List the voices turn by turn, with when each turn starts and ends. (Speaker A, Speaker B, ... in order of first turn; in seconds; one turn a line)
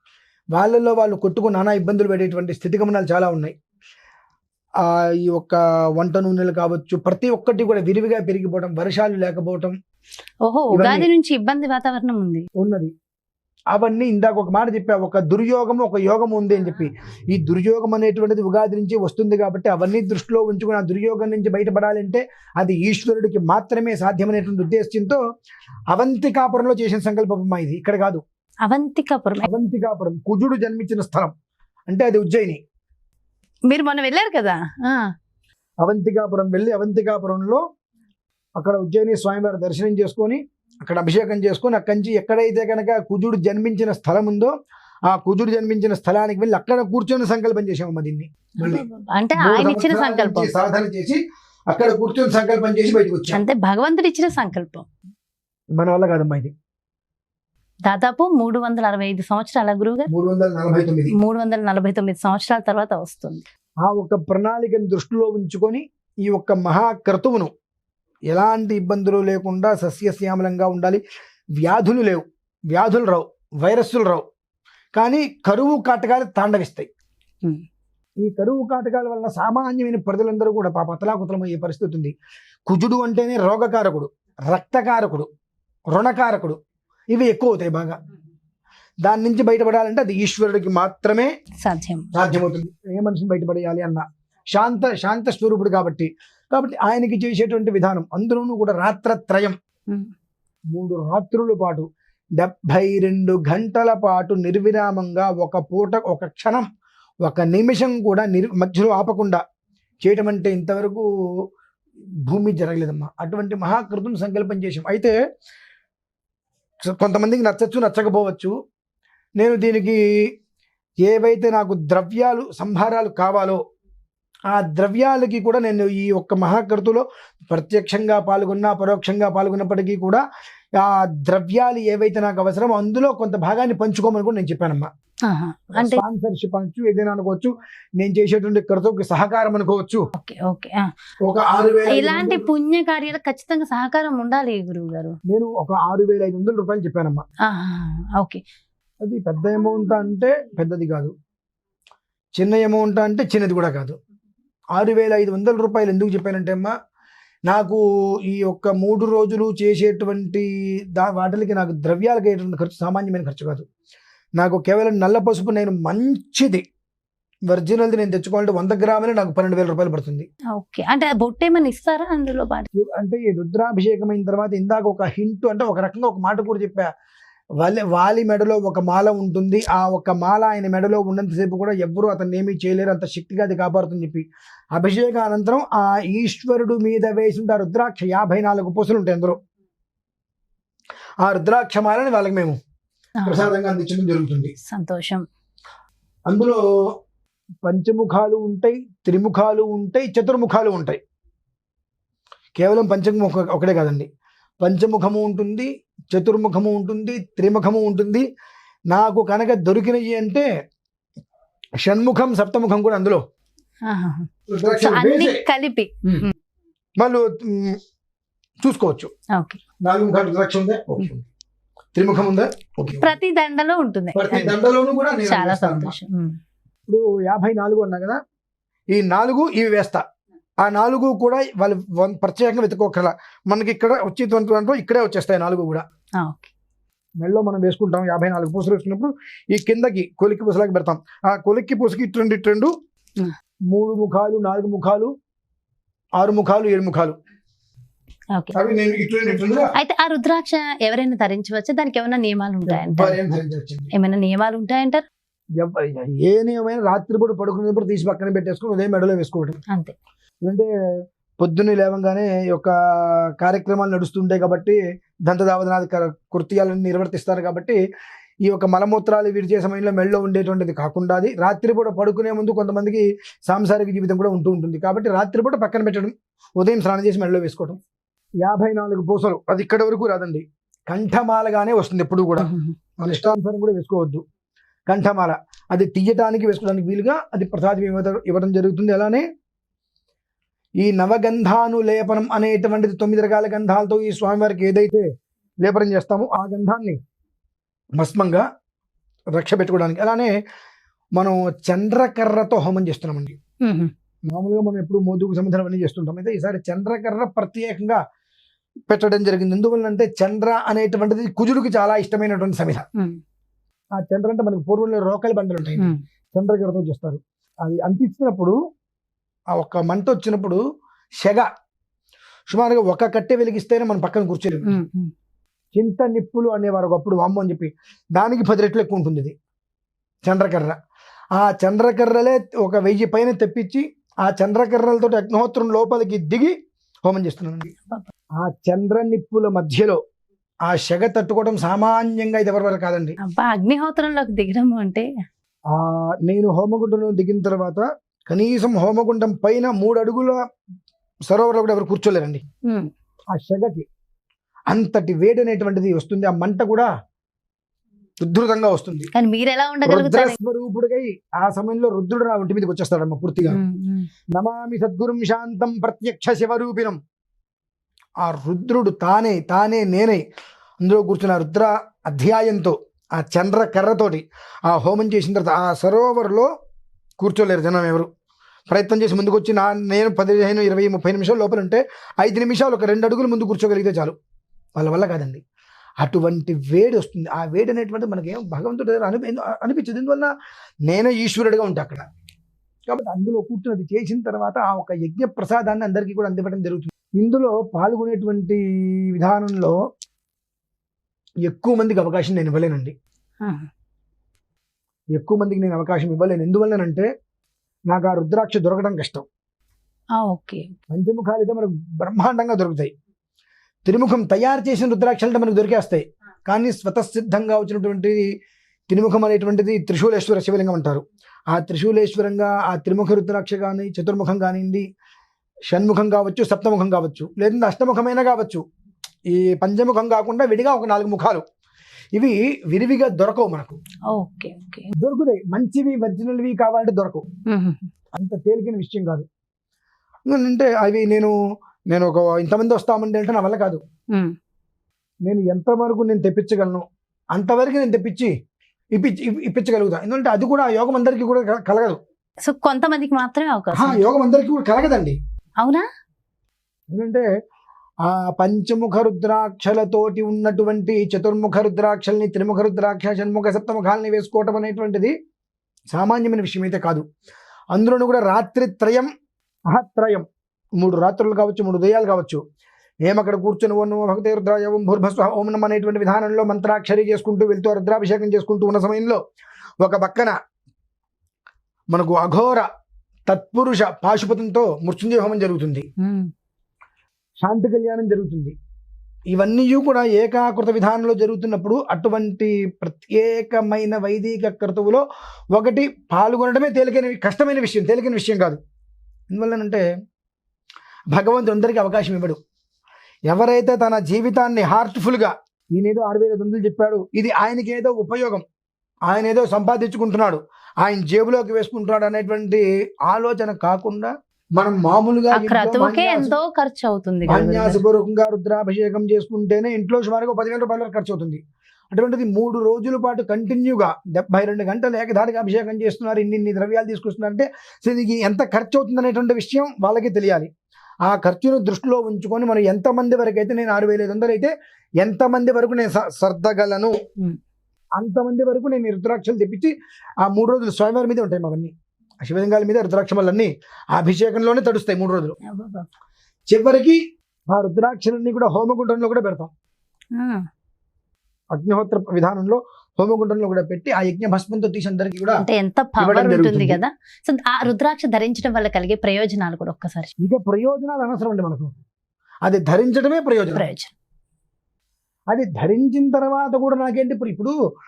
Speaker A: 0.5-3.5
Speaker A: 4.8-9.7
Speaker B: 10.4-12.5
Speaker A: 10.7-11.1
Speaker A: 12.6-12.9
Speaker A: 13.7-25.2
Speaker A: 25.9-28.2
Speaker B: 28.6-29.5
Speaker A: 29.4-31.3
Speaker A: 31.9-32.6
Speaker B: 33.7-35.1
Speaker A: 35.8-37.6
Speaker A: 38.6-44.5
Speaker A: 45.1-48.9
Speaker B: 48.6-50.5
Speaker A: 49.4-51.2
Speaker A: 51.7-53.4
Speaker B: 53.3-54.9
Speaker A: 55.8-56.5
Speaker B: 57.8-60.1
Speaker A: 60.1-61.1
Speaker B: 61.1-63.4
Speaker A: 63.8-67.5
Speaker A: 68.3-71.0
Speaker A: 71.6-74.2
Speaker A: 74.9-76.9
Speaker A: 78.2-82.1
Speaker A: 82.7-85.3
Speaker A: 85.9-86.6
Speaker A: 87.1-88.0
Speaker A: 89.0-91.3
Speaker B: 91.6-92.1
Speaker A: 92.1-99.5
Speaker A: 100.7-101.8
Speaker A: 102.4-106.7
Speaker A: 107.2-109.4
Speaker A: 110.0-111.0
Speaker A: 112.2-115.1
Speaker A: 116.8-118.5
Speaker A: 119.4-120.0
Speaker A: 121.0-123.6
Speaker A: 124.5-130.2
Speaker A: 130.8-134.9
Speaker B: 135.2-136.0
Speaker A: 135.8-140.1
Speaker B: 140.1-140.9
Speaker A: 141.2-142.4
Speaker B: 141.9-145.2
Speaker A: 145.3-147.2
Speaker B: 147.4-148.4
Speaker A: 149.0-151.1
Speaker A: 152.4-153.9
Speaker A: 154.8-156.7
Speaker A: 157.5-163.6
Speaker A: 164.4-166.6
Speaker A: 167.5-170.2
Speaker B: 170.5-172.7
Speaker A: 172.7-176.9
Speaker A: 177.6-184.2
Speaker A: 184.7-189.4
Speaker A: 191.2-192.6
Speaker B: 193.2-193.5
Speaker A: 193.2-194.5
Speaker B: 194.6-195.2
Speaker A: 196.3-196.6
Speaker A: 197.6-201.0
Speaker A: 202.6-204.1
Speaker A: 204.6-208.2
Speaker A: 208.9-210.5
Speaker A: 211.8-213.2
Speaker B: 213.8-216.3
Speaker A: 214.5-215.4
Speaker A: 217.0-217.8
Speaker A: 218.6-219.1
Speaker B: 219.3-219.6
Speaker A: 219.8-221.2
Speaker A: 221.9-223.1
Speaker B: 223.0-224.6
Speaker A: 224.1-225.9
Speaker B: 225.2-226.4
Speaker A: 226.9-228.2
Speaker A: 228.9-230.0
Speaker A: 230.6-235.8
Speaker B: 236.2-236.5
Speaker A: 237.2-242.7
Speaker A: 243.7-245.1
Speaker A: 246.2-247.1
Speaker A: 248.5-249.7
Speaker B: 249.7-253.2
Speaker A: 252.7-253.9
Speaker B: 253.9-255.0
Speaker A: 255.6-259.6
Speaker B: 259.7-259.9
Speaker A: 261.4-267.8
Speaker A: 268.4-277.8
Speaker A: 278.4-282.5
Speaker B: 282.4-282.7
Speaker A: 283.0-284.2
Speaker A: 284.9-289.2
Speaker A: 290.8-295.1
Speaker A: 295.6-297.0
Speaker A: 298.0-298.4
Speaker A: 299.3-300.3
Speaker A: 301.1-303.4
Speaker B: 303.6-303.9
Speaker A: 304.3-308.0
Speaker A: 308.9-312.8
Speaker A: 313.9-318.6
Speaker A: 319.6-320.6
Speaker A: 321.2-321.5
Speaker A: 322.5-324.8
Speaker B: 324.6-325.1
Speaker A: 325.8-329.3
Speaker A: 330.2-330.8
Speaker A: 331.4-336.5
Speaker A: 337.1-337.7
Speaker A: 338.4-340.0
Speaker A: 340.7-343.2
Speaker B: 343.2-345.1
Speaker A: 345.7-350.4
Speaker A: 351.3-352.4
Speaker B: 352.6-352.9
Speaker A: 353.3-353.9
Speaker A: 354.7-356.9
Speaker A: 358.2-359.1
Speaker B: 359.1-360.4
Speaker A: 359.8-363.6
Speaker B: 363.5-364.1
Speaker A: 364.3-367.0
Speaker A: 368.2-370.2
Speaker A: 370.8-376.5
Speaker A: 377.2-378.1
Speaker A: 378.7-384.1
Speaker A: 384.8-385.4
Speaker A: 386.0-390.3
Speaker A: 390.9-392.1
Speaker A: 392.9-398.6
Speaker A: 399.1-399.8
Speaker A: 401.4-402.9
Speaker B: 403.4-403.7
Speaker A: 405.1-407.1
Speaker A: 407.9-409.2
Speaker B: 410.1-410.7
Speaker A: 410.9-412.9
Speaker A: 413.9-418.3
Speaker A: 418.9-424.8
Speaker A: 425.7-428.6
Speaker A: 429.3-431.4
Speaker A: 432.1-433.8
Speaker B: 434.1-434.9
Speaker A: 435.0-437.2
Speaker B: 437.5-437.9
Speaker A: 438.1-439.2
Speaker A: 440.3-441.3
Speaker A: 441.9-443.8
Speaker A: 445.2-448.3
Speaker A: 448.9-452.0
Speaker B: 452.4-454.0
Speaker A: 453.7-455.2
Speaker B: 455.6-455.9
Speaker A: 456.9-457.3
Speaker A: 458.0-465.1
Speaker A: 465.9-467.0
Speaker A: 467.7-469.1
Speaker A: 469.7-470.2
Speaker A: 470.8-472.4
Speaker A: 473.0-479.2
Speaker A: 479.8-480.3
Speaker A: 481.9-482.6
Speaker A: 483.3-485.9
Speaker B: 486.0-486.3
Speaker A: 487.4-488.5
Speaker A: 489.3-498.6
Speaker A: 499.3-499.8
Speaker A: 501.1-502.4
Speaker A: 503.3-508.4
Speaker A: 509.1-516.4
Speaker B: 515.3-517.8
Speaker A: 517.3-521.4
Speaker A: 521.9-530.5
Speaker A: 531.0-537.0
Speaker A: 538.0-539.7
Speaker A: 540.2-545.4
Speaker B: 545.4-545.9
Speaker A: 546.5-547.0
Speaker A: 547.5-549.5
Speaker B: 550.1-550.5
Speaker A: 551.5-555.4
Speaker B: 555.4-560.1
Speaker A: 556.0-556.8
Speaker A: 560.2-561.7
Speaker A: 562.5-563.7
Speaker B: 563.5-563.9
Speaker A: 565.3-567.5